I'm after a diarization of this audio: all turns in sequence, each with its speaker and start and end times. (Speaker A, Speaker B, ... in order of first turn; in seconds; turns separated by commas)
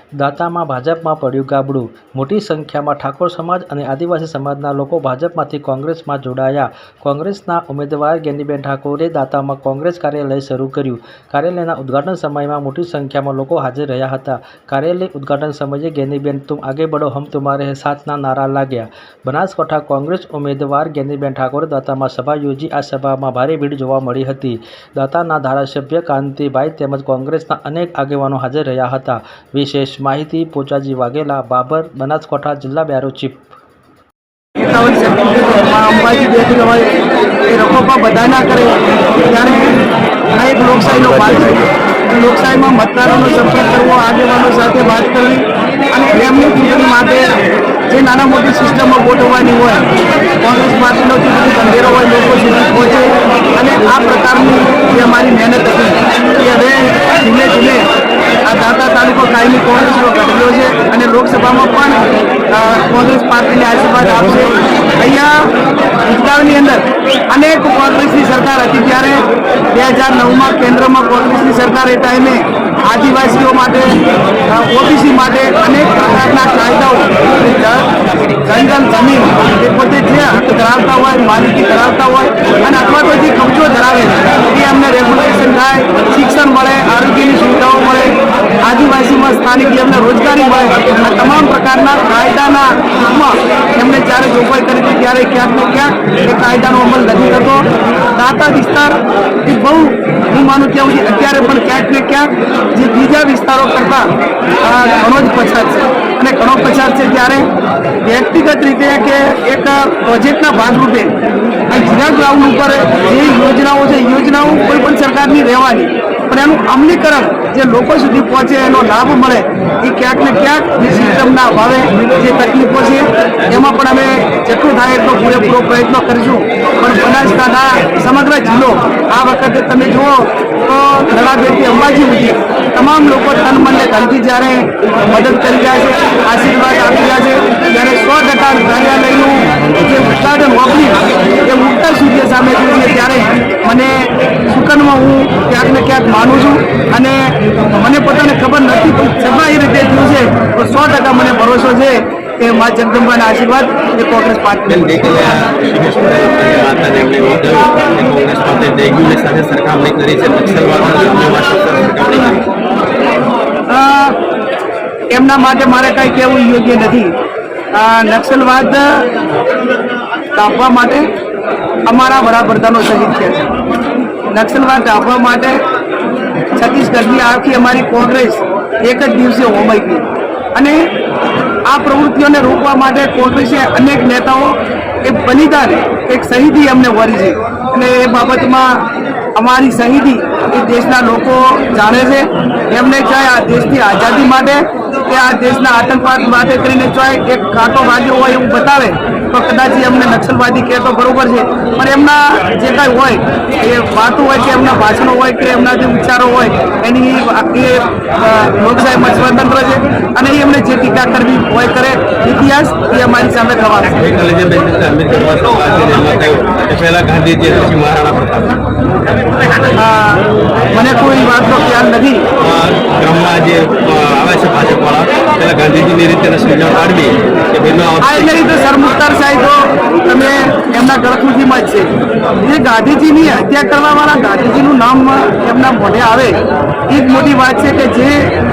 Speaker A: 0.2-33.5, Speaker B: 34.6-36.9, Speaker B: 37.5-39.7, Speaker B: 40.4-47.3, Speaker C: 40.9-41.6, Speaker B: 47.9-49.8, Speaker B: 50.4-57.9, Speaker B: 58.5-62.0, Speaker B: 62.5-65.5, Speaker B: 66.0-74.0, Speaker B: 74.5-104.1, Speaker B: 104.6-107.5, Speaker B: 108.0-111.1, Speaker B: 111.7-154.8, Speaker C: 154.7-162.4, Speaker B: 163.7-164.2, Speaker B: 165.1-167.1, Speaker B: 167.7-169.0, Speaker B: 170.3-171.1, Speaker B: 171.8-173.5, Speaker B: 174.3-175.6, Speaker B: 176.5-180.9, Speaker B: 181.7-214.0, Speaker C: 213.9-218.5, Speaker B: 219.7-222.2, Speaker C: 222.4-228.5, Speaker B: 228.0-231.9, Speaker B: 232.4-238.3